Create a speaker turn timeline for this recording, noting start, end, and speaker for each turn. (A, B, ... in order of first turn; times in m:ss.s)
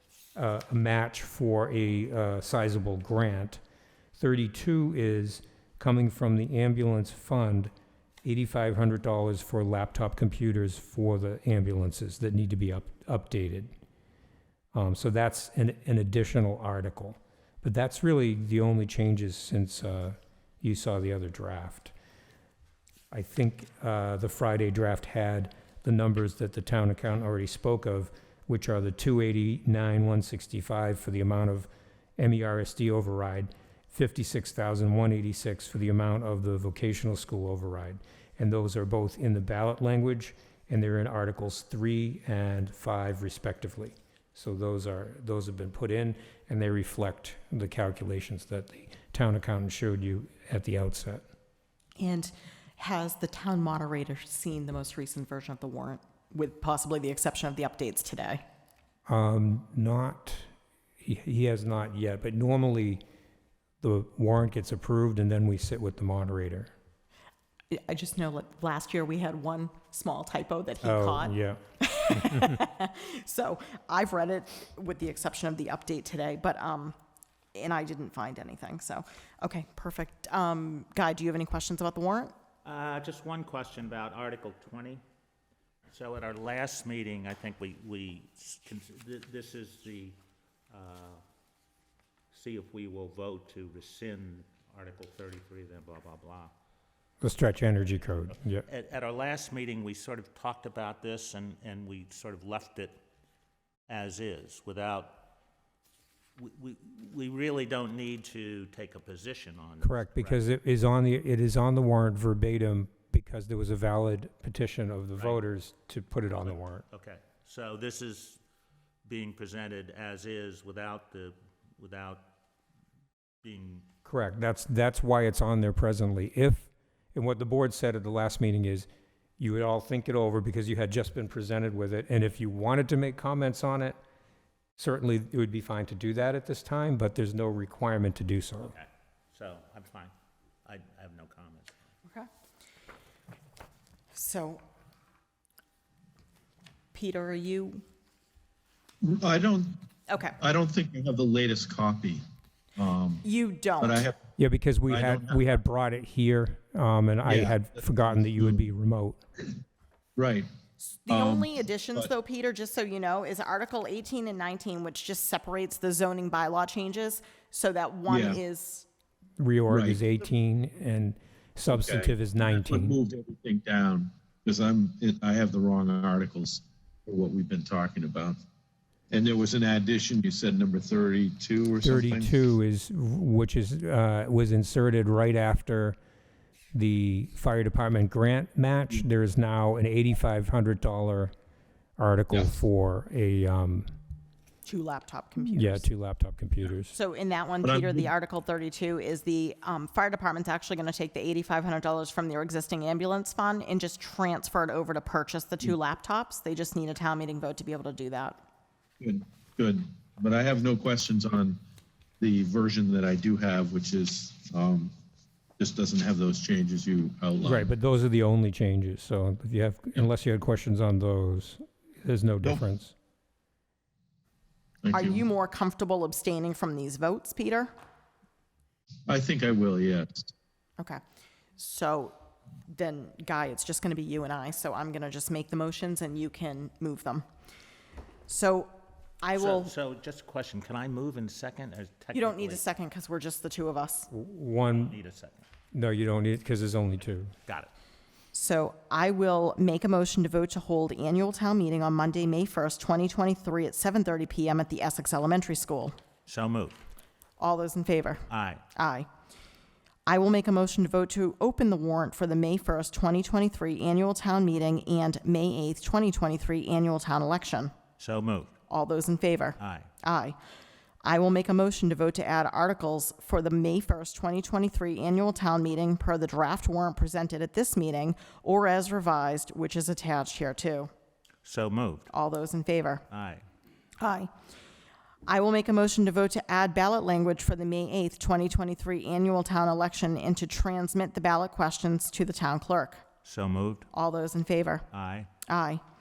0:00.3-0:03.6 A
0:04.2-0:07.7 A
0:08.2-0:13.7 A
0:14.7-0:21.9 A
0:23.1-0:51.2 A
0:52.0-0:58.4 B
0:59.1-1:00.5 A
1:01.0-1:03.0 A
1:03.8-1:06.7 A
1:07.7-1:16.9 B
1:10.8-1:12.6 A
1:17.5-1:22.3 B
1:22.6-1:25.0 C
1:25.9-1:30.2 C
1:30.7-1:31.2 C
1:32.3-1:36.5 C
1:37.2-1:38.6 A
1:38.6-1:43.0 C
1:43.9-1:45.2 C
1:46.4-1:50.4 C
1:49.8-1:56.8 A
1:55.2-1:55.4 C
1:56.4-1:58.4 C
1:59.0-2:02.3 C
2:03.4-2:03.9 C
2:04.0-2:08.9 A
2:09.4-2:14.0 A
2:14.8-2:18.7 A
2:18.6-2:20.1 C
2:20.6-2:21.8 C
2:24.1-2:24.6 B
2:26.9-2:27.8 B
2:29.0-2:29.8 D
2:30.1-2:30.4 B
2:30.4-2:32.2 D
2:32.8-2:33.2 D
2:33.2-2:34.0 B
2:33.8-2:34.2 D
2:34.4-2:39.2 A
2:34.9-2:35.4 D
2:37.3-2:38.6 D
2:40.2-2:40.5 D
2:40.8-2:48.9 B
2:41.1-2:42.1 D
2:48.1-2:48.4 D
2:49.4-2:53.0 A
2:49.7-2:50.0 D
2:51.7-2:58.4 D
2:59.1-3:02.4 D
3:01.8-3:06.0 A
3:06.7-3:11.3 A
3:12.0-3:13.9 A
3:14.6-3:15.9 B
3:15.4-3:16.9 A
3:16.9-3:28.4 B
3:17.6-3:18.1 D
3:29.0-3:31.6 D
3:32.2-3:34.9 D
3:35.6-3:37.7 D
3:37.4-3:42.9 A
3:44.8-3:45.2 D
3:44.9-3:47.7 B
3:49.1-3:50.3 D
3:51.6-3:52.1 B
3:52.7-3:57.2 B
3:58.3-3:59.7 B
3:59.3-4:02.6 C
4:02.1-4:04.1 B
4:04.1-4:04.9 A
4:04.8-4:05.4 C
4:05.7-4:07.3 A
4:08.3-4:16.0 B
4:16.2-4:16.8 C
4:17.4-4:19.1 B
4:18.3-4:18.6 C
4:20.1-4:27.7 B
4:28.0-4:28.5 C
4:28.7-4:30.4 B
4:29.6-4:29.9 C
4:31.0-4:40.9 B
4:41.4-4:42.1 C
4:42.1-4:43.0 B
4:43.1-4:43.4 C
4:44.0-4:44.3 B
4:45.2-4:53.0 B
4:53.2-4:53.9 C
4:53.9-4:54.8 B
4:54.9-4:55.3 C
4:55.5-4:55.8 B